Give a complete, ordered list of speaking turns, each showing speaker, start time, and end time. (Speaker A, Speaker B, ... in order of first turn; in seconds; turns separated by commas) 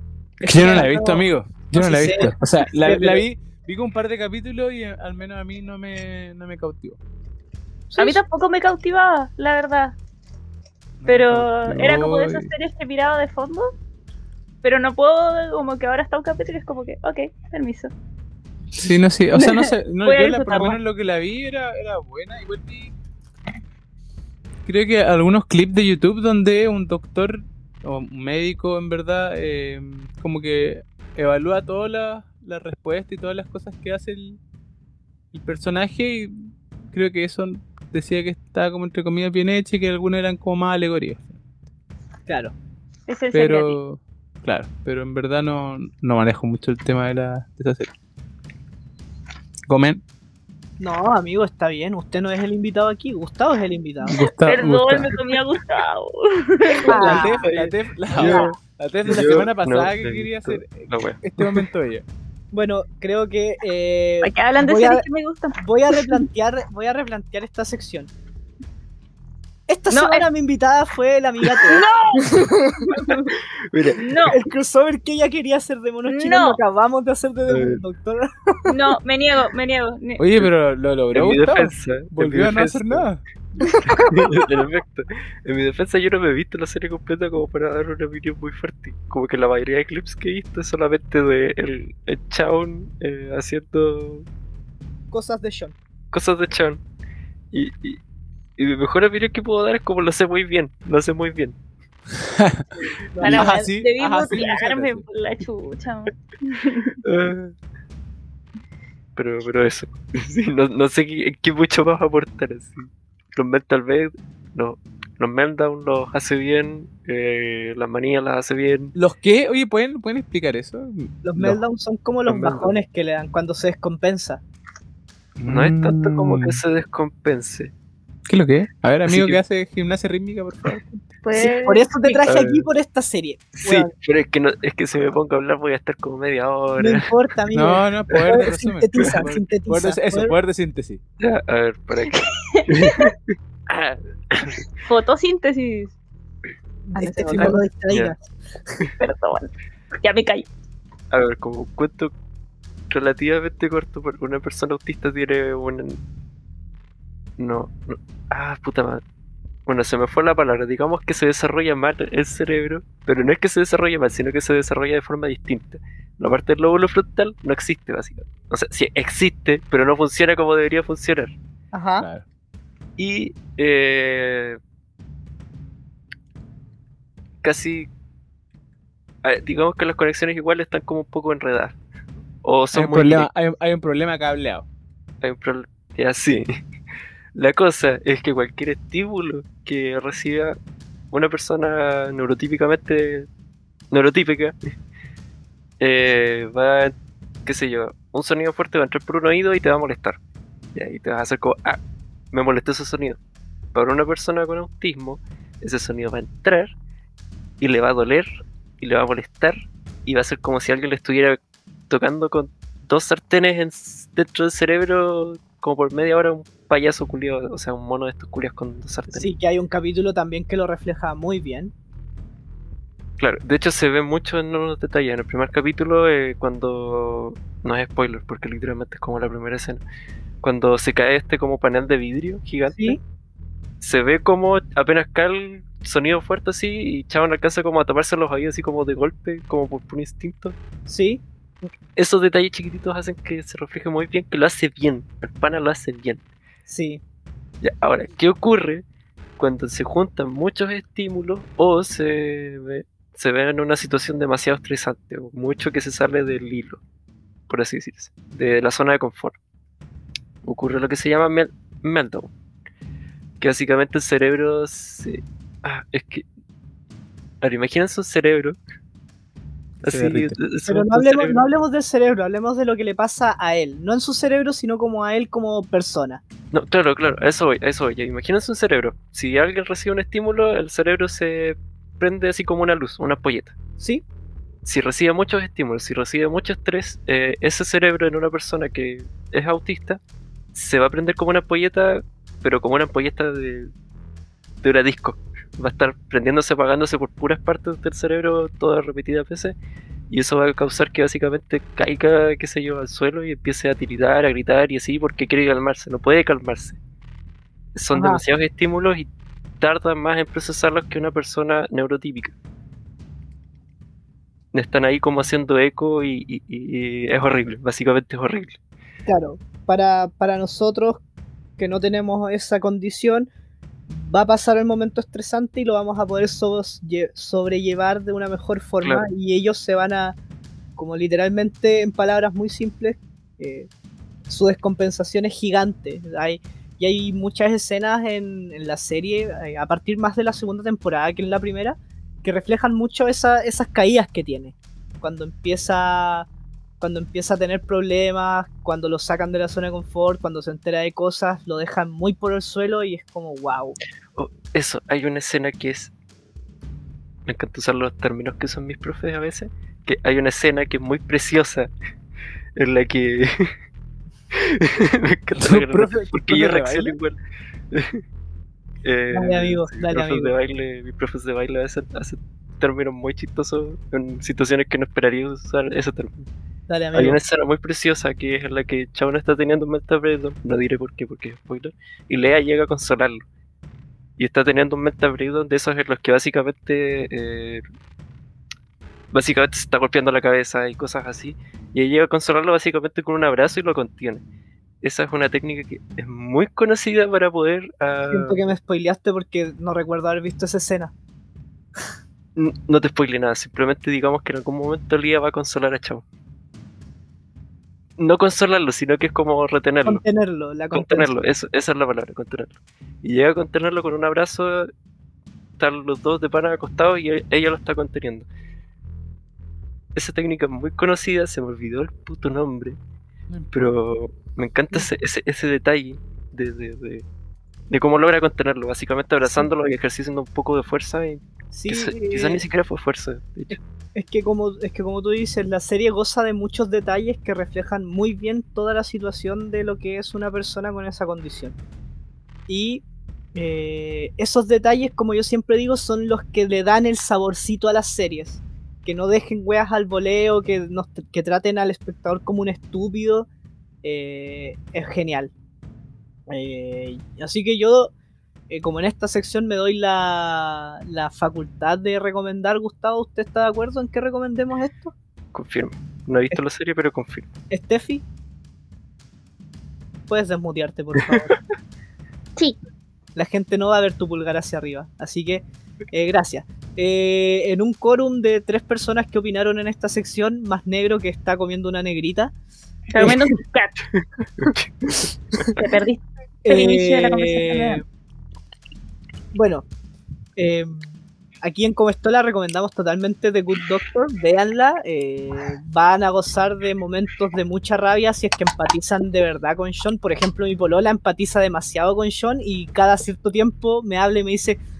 Speaker A: 0.4-1.2, Speaker B: 0.4-7.0, Speaker A: 1.8-3.2, Speaker A: 7.9-8.2, Speaker C: 8.0-10.0, Speaker B: 11.0-12.5, Speaker C: 11.1-13.7, Speaker C: 14.6-17.9, Speaker B: 18.7-22.9, Speaker C: 19.3-20.8, Speaker B: 24.6-34.4, Speaker B: 35.3-41.4, Speaker A: 42.3-42.5, Speaker C: 43.1-43.8, Speaker B: 43.3-47.9, Speaker B: 49.7-50.0, Speaker A: 50.8-54.1, Speaker B: 54.0-55.1, Speaker C: 54.5-57.2, Speaker B: 56.9-62.0, Speaker A: 56.9-57.4, Speaker D: 57.4-61.6, Speaker A: 58.2-58.5, Speaker A: 62.5-65.0, Speaker C: 64.2-66.2, Speaker A: 65.6-68.1, Speaker A: 69.7-71.8, Speaker C: 69.9-70.2, Speaker C: 71.7-72.3, Speaker C: 72.9-73.3, Speaker D: 73.7-74.0, Speaker C: 74.0-74.4, Speaker A: 74.3-78.8, Speaker C: 76.1-76.6, Speaker D: 77.5-77.8, Speaker C: 78.7-80.3, Speaker B: 80.2-83.2, Speaker D: 81.1-83.1, Speaker D: 83.9-94.2, Speaker A: 95.1-95.8, Speaker D: 96.1-96.8, Speaker D: 97.5-98.0, Speaker D: 98.6-101.5, Speaker B: 102.3-102.7, Speaker A: 102.8-103.6, Speaker C: 103.2-107.0, Speaker B: 103.2-105.0, Speaker D: 107.0-107.5, Speaker D: 109.2-118.9, Speaker B: 118.9-121.6, Speaker A: 121.2-124.4, Speaker D: 122.3-122.7, Speaker B: 125.4-126.6, Speaker D: 125.5-127.7, Speaker B: 128.3-131.0, Speaker D: 129.1-129.4, Speaker C: 131.2-132.2, Speaker A: 131.3-133.9, Speaker D: 132.2-132.7, Speaker D: 133.6-137.1, Speaker A: 136.8-140.3, Speaker B: 137.5-141.0, Speaker D: 141.2-144.7, Speaker C: 142.5-143.0, Speaker C: 144.8-145.9, Speaker A: 146.9-148.2, Speaker C: 146.9-147.6, Speaker D: 147.4-148.1, Speaker C: 149.0-149.5, Speaker C: 150.0-150.5, Speaker D: 151.1-152.1, Speaker D: 152.9-156.0, Speaker D: 157.4-159.0, Speaker D: 159.7-171.3, Speaker A: 171.7-172.1, Speaker B: 172.0-172.2, Speaker D: 173.0-174.6, Speaker D: 177.4-177.9, Speaker D: 179.2-181.8, Speaker D: 182.4-183.3, Speaker B: 182.7-184.7, Speaker D: 185.2-186.5, Speaker D: 187.3-190.5, Speaker D: 191.1-193.3, Speaker D: 193.9-194.5, Speaker D: 195.8-196.9, Speaker D: 197.4-200.2, Speaker D: 200.7-201.8, Speaker D: 202.3-203.2, Speaker D: 203.7-206.7, Speaker D: 207.6-208.3, Speaker D: 208.8-211.4, Speaker D: 211.9-219.3, Speaker A: 219.1-221.7, Speaker D: 223.2-229.8, Speaker D: 230.4-233.0, Speaker A: 232.7-233.0, Speaker D: 233.8-240.6, Speaker A: 240.9-241.2, Speaker D: 241.9-246.2, Speaker A: 246.7-247.0, Speaker D: 247.6-248.8, Speaker D: 249.4-256.8, Speaker D: 257.5-259.4, Speaker D: 260.4-262.3, Speaker D: 263.4-266.2, Speaker D: 267.4-268.6, Speaker B: 269.8-270.4, Speaker D: 269.8-271.4, Speaker A: 270.7-276.2, Speaker D: 276.5-283.5, Speaker A: 283.8-284.0, Speaker D: 284.6-290.0, Speaker D: 290.5-293.7, Speaker D: 294.6-299.5, Speaker D: 300.1-306.8, Speaker D: 307.7-309.1, Speaker A: 307.9-308.2, Speaker D: 309.6-312.3, Speaker D: 314.5-318.6, Speaker A: 319.1-321.0, Speaker A: 321.6-323.3, Speaker A: 323.9-330.2, Speaker D: 328.8-329.1, Speaker A: 330.8-333.7, Speaker A: 334.3-346.3, Speaker A: 346.8-353.8, Speaker D: 354.1-355.9, Speaker D: 357.2-361.7, Speaker D: 362.6-363.5, Speaker D: 364.3-367.2, Speaker B: 365.4-367.0, Speaker D: 367.7-368.0, Speaker D: 368.8-376.3, Speaker A: 369.1-370.3, Speaker A: 376.7-377.2, Speaker D: 376.9-383.2, Speaker D: 384.2-387.6, Speaker D: 389.1-394.2, Speaker D: 394.8-398.4, Speaker A: 398.1-400.9, Speaker D: 402.4-406.0, Speaker D: 408.0-410.0, Speaker A: 409.9-411.1, Speaker D: 410.7-414.7, Speaker D: 415.6-418.3, Speaker D: 419.9-422.8, Speaker D: 423.5-427.1, Speaker D: 427.7-433.6, Speaker A: 429.2-429.5, Speaker A: 431.5-432.4, Speaker A: 433.5-441.6, Speaker A: 442.5-442.8, Speaker A: 443.3-453.3, Speaker A: 453.8-455.3, Speaker A: 456.3-457.9, Speaker A: 458.5-464.9, Speaker D: 465.3-467.3, Speaker A: 467.5-468.0, Speaker A: 470.1-471.4, Speaker A: 473.1-482.3, Speaker C: 482.9-483.8, Speaker D: 483.9-485.5, Speaker C: 485.5-487.8, Speaker A: 486.4-487.8, Speaker A: 489.3-489.7, Speaker A: 490.4-504.6